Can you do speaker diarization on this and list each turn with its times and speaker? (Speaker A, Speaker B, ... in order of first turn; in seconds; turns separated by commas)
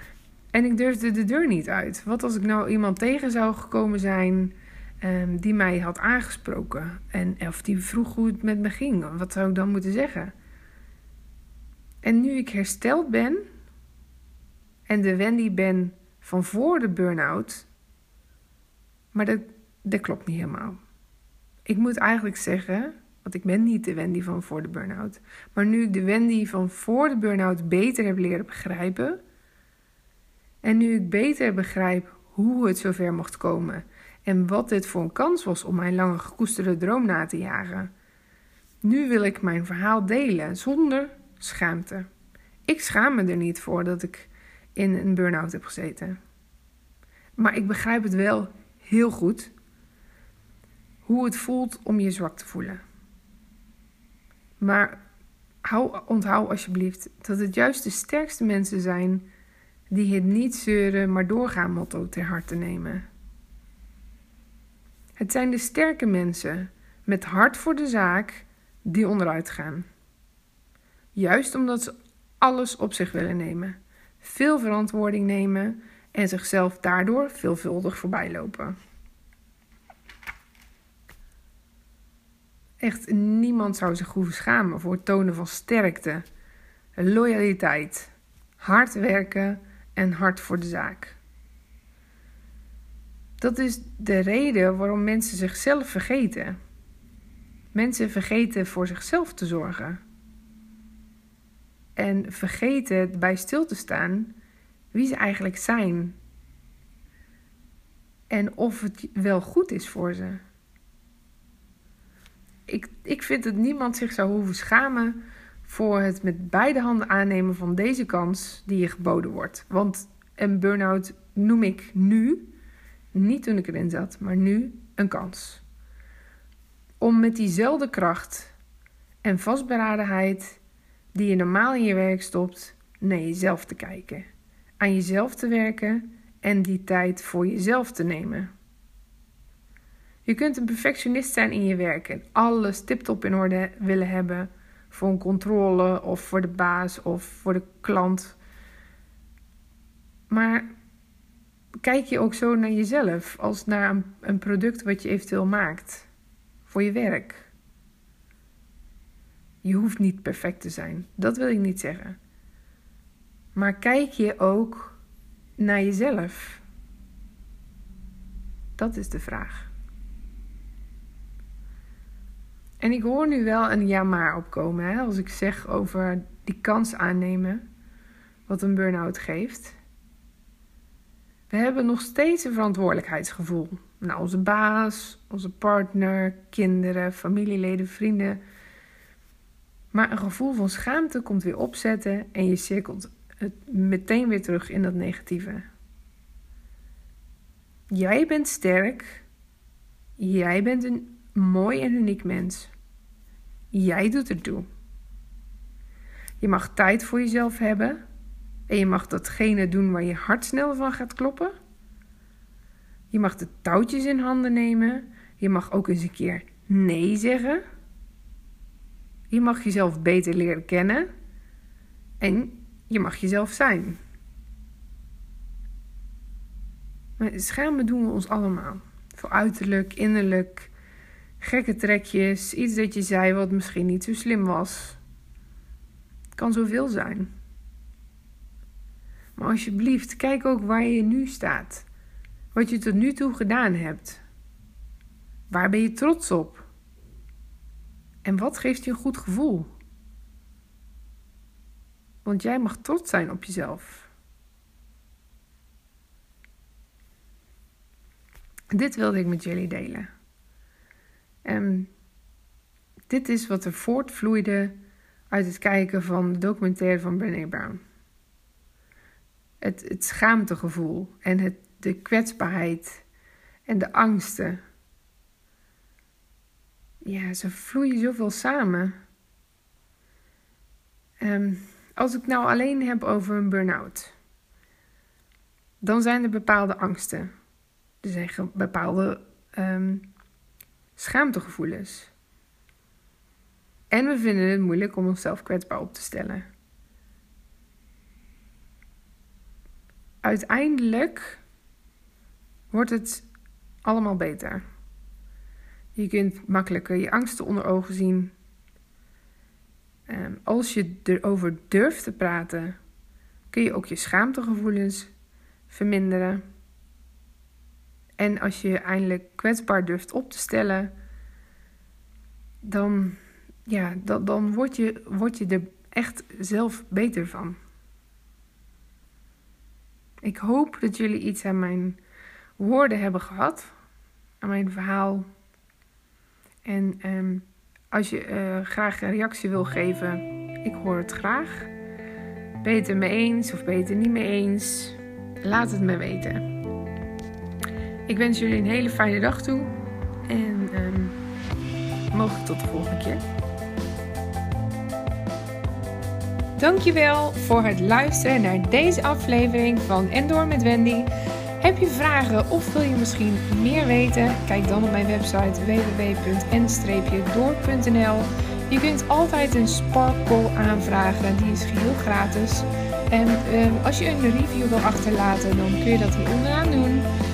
Speaker A: 0.5-10.3, Speaker A: 12.0-13.4, Speaker A: 14.9-17.7, Speaker A: 19.1-20.8, Speaker A: 21.6-29.2, Speaker A: 30.6-37.9, Speaker A: 38.8-42.1, Speaker A: 42.7-46.2, Speaker A: 47.4-49.5, Speaker A: 51.0-52.8, Speaker A: 54.6-55.0, Speaker A: 55.6-59.3, Speaker A: 59.9-63.0, Speaker A: 65.2-69.9, Speaker A: 71.1-78.8, Speaker A: 82.8-86.2, Speaker A: 87.0-91.2, Speaker A: 93.4-96.6, Speaker A: 97.7-100.0, Speaker A: 102.0-104.3, Speaker A: 104.9-106.2, Speaker A: 108.3-110.4, Speaker A: 112.7-122.5, Speaker A: 123.1-125.6, Speaker A: 127.0-128.5, Speaker A: 129.2-130.6, Speaker A: 131.1-134.3, Speaker A: 134.8-138.5, Speaker A: 140.2-148.4, Speaker A: 150.3-150.7, Speaker A: 151.8-156.1, Speaker A: 156.7-157.5, Speaker A: 159.6-162.2, Speaker A: 163.5-165.0, Speaker A: 165.6-166.6, Speaker A: 168.8-169.7, Speaker A: 172.8-177.6, Speaker A: 178.5-179.8, Speaker A: 181.5-188.4, Speaker A: 189.9-195.6, Speaker A: 197.9-199.2, Speaker A: 200.2-202.7, Speaker A: 203.7-204.7, Speaker A: 206.4-208.0, Speaker A: 208.7-211.5, Speaker A: 213.1-217.6, Speaker A: 219.3-221.1, Speaker A: 222.2-224.0, Speaker A: 227.2-230.7, Speaker A: 231.4-235.0, Speaker A: 236.3-237.3, Speaker A: 239.4-241.9, Speaker A: 242.5-244.2, Speaker A: 245.5-246.7, Speaker A: 248.2-249.7, Speaker A: 252.2-254.1, Speaker A: 258.7-260.1, Speaker A: 261.4-261.9, Speaker A: 263.1-264.8, Speaker A: 265.3-267.8, Speaker A: 269.6-273.0, Speaker A: 273.7-274.6, Speaker A: 277.0-278.9, Speaker A: 281.2-284.1, Speaker A: 285.8-287.3, Speaker A: 288.0-290.1, Speaker A: 291.0-292.1, Speaker A: 293.9-296.5, Speaker A: 300.2-301.4, Speaker A: 302.7-303.3, Speaker A: 303.8-304.6, Speaker A: 305.9-308.3, Speaker A: 310.1-312.8, Speaker A: 313.5-315.1, Speaker A: 315.7-316.4, Speaker A: 318.2-320.9, Speaker A: 322.6-327.6, Speaker A: 330.2-332.0, Speaker A: 332.6-333.7, Speaker A: 334.4-335.3, Speaker A: 336.6-341.7, Speaker A: 342.6-346.4, Speaker A: 348.1-349.7, Speaker A: 350.3-351.2, Speaker A: 352.1-353.2, Speaker A: 356.6-377.1